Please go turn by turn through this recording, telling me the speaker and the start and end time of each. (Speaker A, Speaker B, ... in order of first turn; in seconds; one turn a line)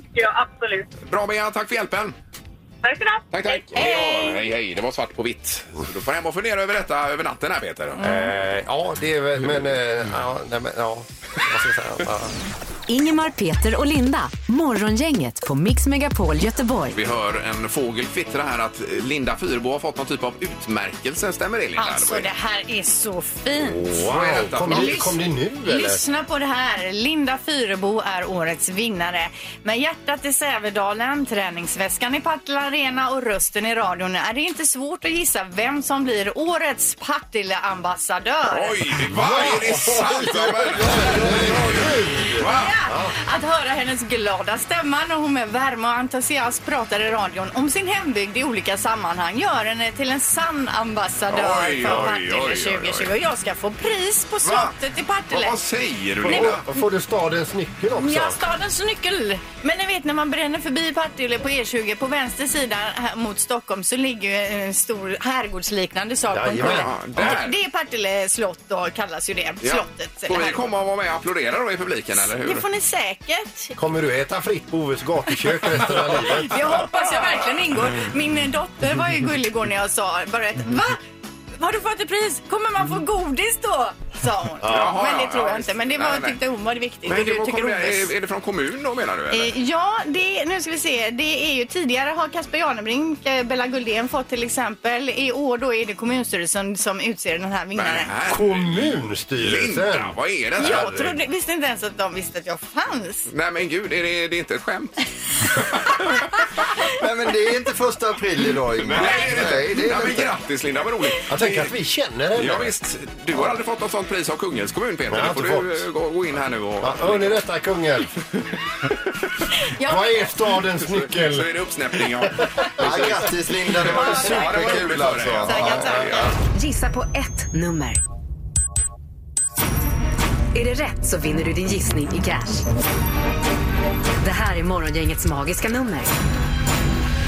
Speaker A: 0.1-0.9
Speaker B: 1.1-2.1
Speaker A: 2.8-4.0
Speaker B: 3.3-8.1
Speaker C: 3.8-4.3
Speaker D: 8.0-12.3
Speaker E: 12.9-17.0
Speaker B: 16.9-22.3
Speaker C: 21.8-24.0
Speaker D: 23.6-26.0
Speaker B: 24.0-25.2
Speaker C: 24.6-38.8
Speaker B: 38.5-42.7
Speaker D: 39.0-43.1
Speaker C: 42.4-55.6
Speaker B: 51.3-53.1
Speaker D: 51.8-52.1
Speaker B: 54.4-54.7
Speaker B: 55.3-56.6
Speaker D: 56.2-58.4
Speaker C: 56.3-56.6
Speaker C: 58.0-70.6
Speaker D: 66.3-67.3
Speaker B: 66.6-67.5
Speaker B: 69.6-72.6
Speaker C: 72.2-73.7
Speaker D: 73.8-76.9
Speaker C: 76.2-81.0
Speaker C: 81.6-88.1
Speaker D: 84.6-85.0
Speaker B: 84.6-86.4
Speaker B: 87.0-89.5
Speaker C: 89.3-98.1
Speaker B: 97.7-101.1
Speaker D: 98.3-101.1
Speaker C: 100.6-103.3
Speaker B: 103.3-106.4
Speaker F: 107.0-110.3
Speaker B: 108.8-111.7
Speaker D: 111.3-112.7
Speaker B: 112.3-117.4
Speaker D: 115.1-115.8
Speaker D: 116.8-118.1
Speaker C: 119.8-120.2
Speaker D: 119.8-121.5
Speaker B: 120.8-126.3
Speaker D: 122.2-126.3
Speaker F: 122.8-125.6
Speaker C: 123.9-124.5
Speaker C: 125.4-126.3
Speaker E: 126.5-128.0
Speaker E: 130.5-132.7
Speaker E: 134.2-136.1